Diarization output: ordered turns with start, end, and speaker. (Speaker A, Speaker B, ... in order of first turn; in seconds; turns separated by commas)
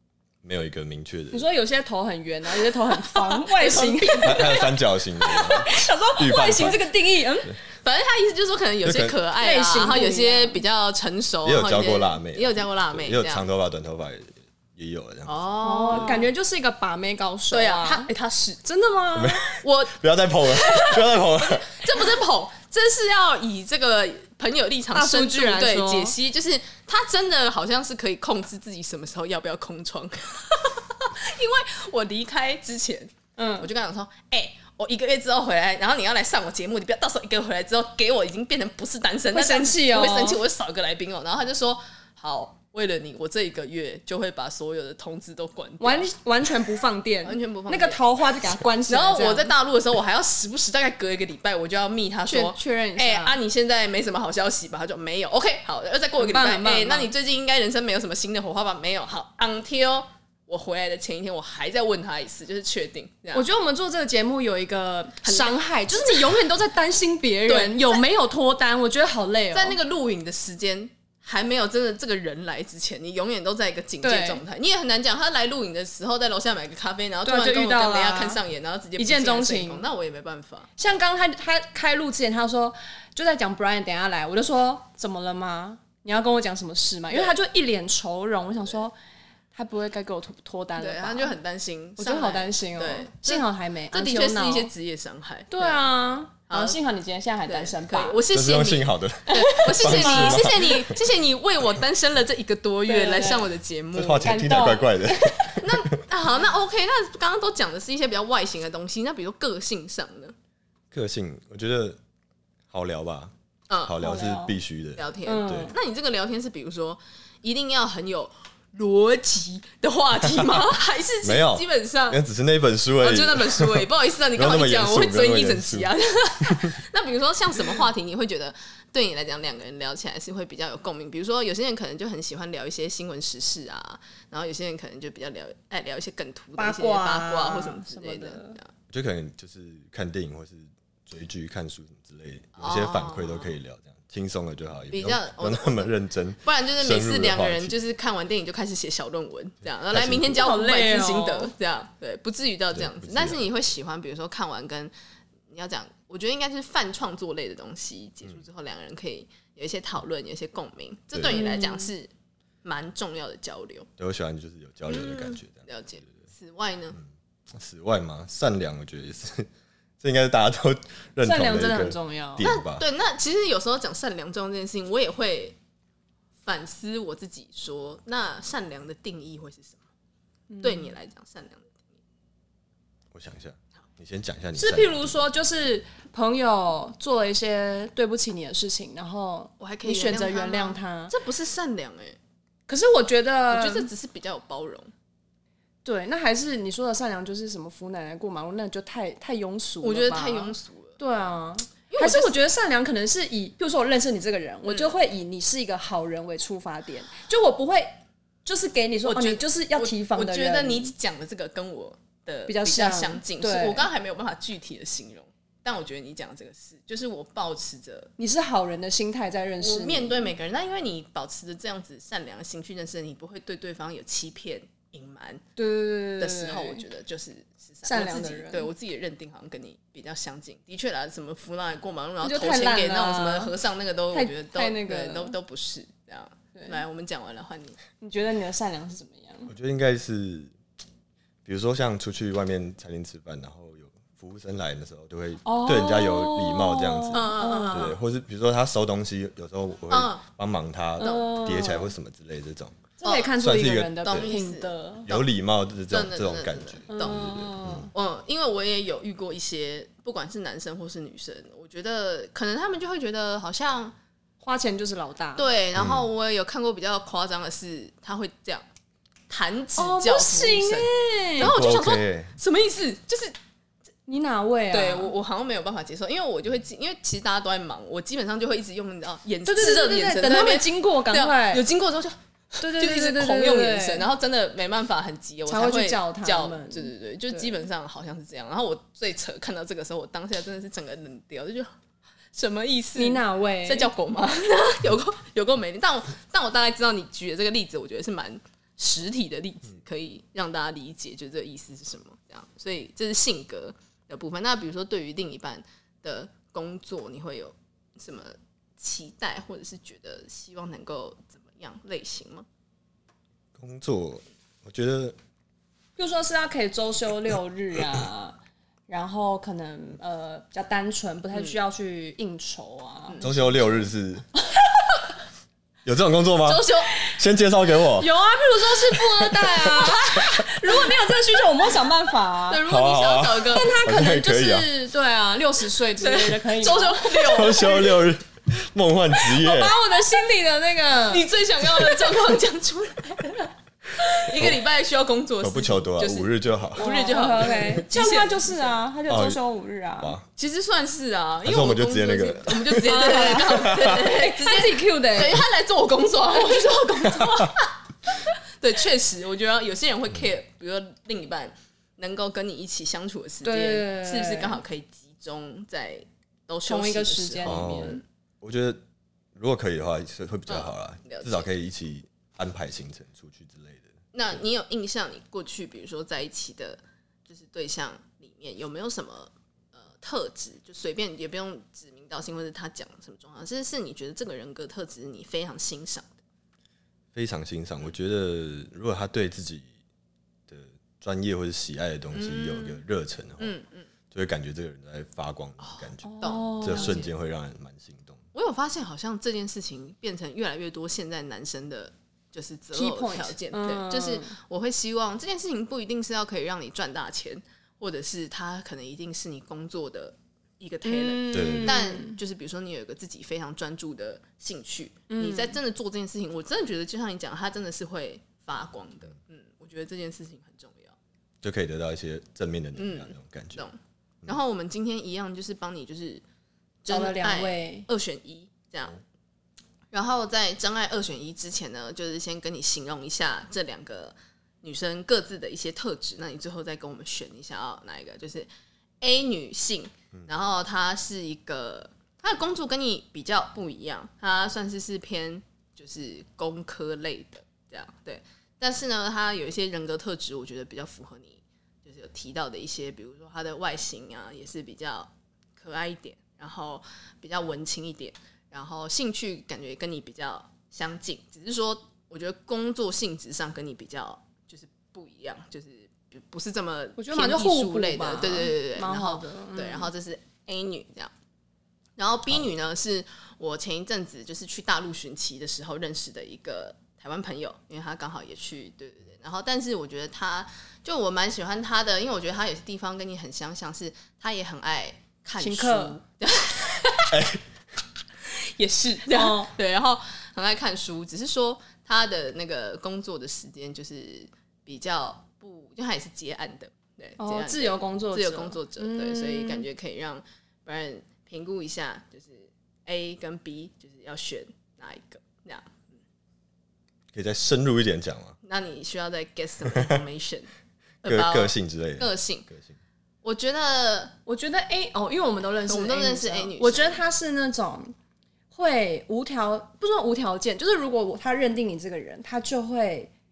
Speaker A: 0.4-1.5, Speaker B: 1.3-7.5, Speaker C: 2.9-4.7, Speaker A: 4.2-6.9, Speaker C: 7.8-13.4, Speaker A: 8.8-9.2, Speaker B: 9.4-10.6, Speaker A: 11.4-16.1, Speaker C: 15.2-16.3, Speaker B: 15.6-18.1, Speaker C: 17.5-18.6, Speaker B: 18.6-19.6, Speaker A: 19.1-21.7, Speaker C: 19.6-19.9, Speaker C: 20.5-46.1, Speaker B: 24.9-26.1, Speaker B: 33.4-33.7, Speaker B: 39.3-40.4, Speaker B: 45.8-49.5, Speaker C: 47.2-48.0, Speaker C: 48.9-63.5, Speaker B: 52.3-53.4, Speaker B: 56.2-57.1, Speaker B: 63.3-69.8, Speaker C: 65.2-66.4, Speaker C: 67.5-68.0, Speaker C: 69.5-80.7, Speaker B: 74.0-74.4, Speaker B: 77.2-78.4, Speaker B: 79.0-79.8, Speaker B: 80.8-88.9, Speaker C: 87.1-87.3, Speaker B: 89.5-91.3, Speaker C: 90.8-95.9, Speaker B: 92.0-94.7, Speaker B: 95.5-98.2, Speaker C: 96.5-96.8, Speaker C: 97.5-104.4, Speaker A: 98.3-100.9, Speaker B: 99.3-100.8, Speaker B: 102.9-103.5, Speaker A: 103.9-105.8, Speaker B: 104.2-105.6, Speaker C: 105.6-110.3, Speaker A: 110.9-112.0, Speaker A: 112.7-113.3, Speaker C: 113.7-114.0, Speaker A: 113.8-115.7, Speaker B: 114.0-114.6, Speaker C: 115.0-122.2, Speaker B: 115.2-115.7, Speaker A: 121.2-125.9, Speaker C: 123.0-138.7, Speaker A: 126.4-126.7, Speaker B: 136.6-138.6, Speaker A: 138.9-147.8, Speaker C: 142.6-143.5, Speaker C: 144.9-154.9, Speaker A: 149.9-150.4, Speaker B: 150.3-151.5, Speaker A: 152.7-153.5, Speaker C: 155.5-162.1, Speaker A: 161.1-161.4, Speaker B: 161.3-161.9, Speaker C: 162.6-163.9, Speaker A: 164.0-166.1, Speaker C: 164.9-167.0, Speaker A: 167.0-169.5, Speaker A: 170.0-172.8, Speaker B: 171.2-172.5, Speaker C: 172.4-175.6, Speaker C: 176.4-179.8, Speaker B: 180.5-180.9, Speaker C: 180.6-181.7, Speaker A: 183.1-185.2, Speaker B: 184.6-191.1, Speaker C: 189.6-192.2, Speaker B: 192.7-193.9, Speaker C: 193.5-194.9, Speaker B: 195.8-207.9, Speaker C: 199.8-201.0, Speaker C: 201.9-202.4, Speaker C: 204.6-204.9, Speaker B: 208.4-210.9, Speaker C: 209.0-218.1, Speaker B: 212.5-213.9, Speaker B: 218.2-220.3, Speaker C: 219.6-225.4, Speaker B: 225.6-226.8, Speaker C: 226.2-237.8, Speaker B: 227.8-228.7, Speaker B: 232.2-233.5, Speaker B: 234.1-235.3, Speaker B: 236.5-236.8, Speaker B: 238.0-239.5, Speaker A: 239.5-240.5, Speaker A: 241.4-254.3, Speaker B: 245.4-247.9, Speaker C: 247.1-247.9, Speaker C: 249.9-250.2, Speaker C: 251.0-251.3, Speaker B: 251.0-251.9, Speaker B: 253.0-255.1, Speaker C: 253.0-253.3, Speaker C: 254.0-254.7, Speaker A: 255.1-257.9, Speaker C: 255.9-257.3, Speaker B: 256.9-257.9, Speaker C: 257.9-263.9, Speaker B: 264.4-265.5, Speaker C: 265.4-268.6, Speaker A: 265.8-266.0, Speaker C: 269.3-273.3, Speaker B: 269.8-271.5, Speaker A: 271.4-272.3, Speaker B: 274.1-275.1, Speaker C: 274.7-291.7, Speaker B: 279.4-281.6, Speaker B: 282.6-284.1, Speaker B: 285.5-287.6, Speaker C: 292.3-312.4, Speaker B: 292.9-293.9, Speaker A: 313.6-315.1, Speaker B: 316.0-318.4, Speaker B: 318.9-323.2, Speaker C: 323.1-323.3, Speaker A: 323.2-324.3, Speaker A: 325.8-328.1, Speaker C: 326.4-326.9, Speaker B: 328.0-332.6, Speaker A: 329.1-330.4, Speaker C: 332.5-333.7, Speaker A: 332.6-334.7, Speaker B: 333.5-337.9, Speaker C: 335.9-337.9, Speaker A: 337.3-339.8, Speaker B: 339.3-341.2, Speaker C: 341.1-343.5, Speaker B: 341.8-342.2, Speaker C: 344.1-348.7, Speaker A: 344.3-344.6, Speaker A: 345.4-346.8, Speaker B: 346.8-350.1, Speaker A: 349.1-349.4, Speaker A: 350.0-350.2, Speaker C: 350.4-368.0, Speaker A: 351.4-352.9, Speaker B: 352.8-355.4, Speaker A: 353.4-354.0, Speaker B: 363.4-364.6, Speaker B: 366.7-368.0, Speaker A: 367.4-368.8, Speaker A: 369.3-373.9, Speaker C: 370.5-371.5, Speaker C: 374.1-386.1, Speaker A: 387.1-389.7, Speaker A: 390.5-393.5, Speaker C: 392.1-392.8, Speaker C: 393.4-393.9, Speaker A: 394.1-398.2, Speaker C: 395.6-397.1, Speaker B: 396.0-397.0, Speaker C: 398.3-420.9, Speaker B: 402.7-404.3, Speaker B: 410.8-412.2, Speaker A: 411.3-411.7, Speaker B: 415.1-415.6, Speaker A: 421.4-423.6, Speaker C: 422.8-426.2, Speaker C: 426.8-429.0, Speaker B: 426.9-427.9, Speaker C: 429.9-438.5, Speaker C: 439.0-471.1, Speaker B: 467.0-469.9, Speaker C: 472.0-487.1, Speaker B: 485.4-486.0, Speaker A: 487.1-487.4, Speaker C: 488.3-505.9, Speaker B: 489.1-489.5, Speaker B: 497.2-499.6, Speaker A: 507.1-508.4, Speaker C: 508.4-510.5, Speaker C: 511.0-512.5, Speaker A: 511.0-512.8, Speaker C: 513.2-514.1, Speaker B: 514.3-517.9, Speaker C: 515.7-517.0, Speaker B: 518.5-523.1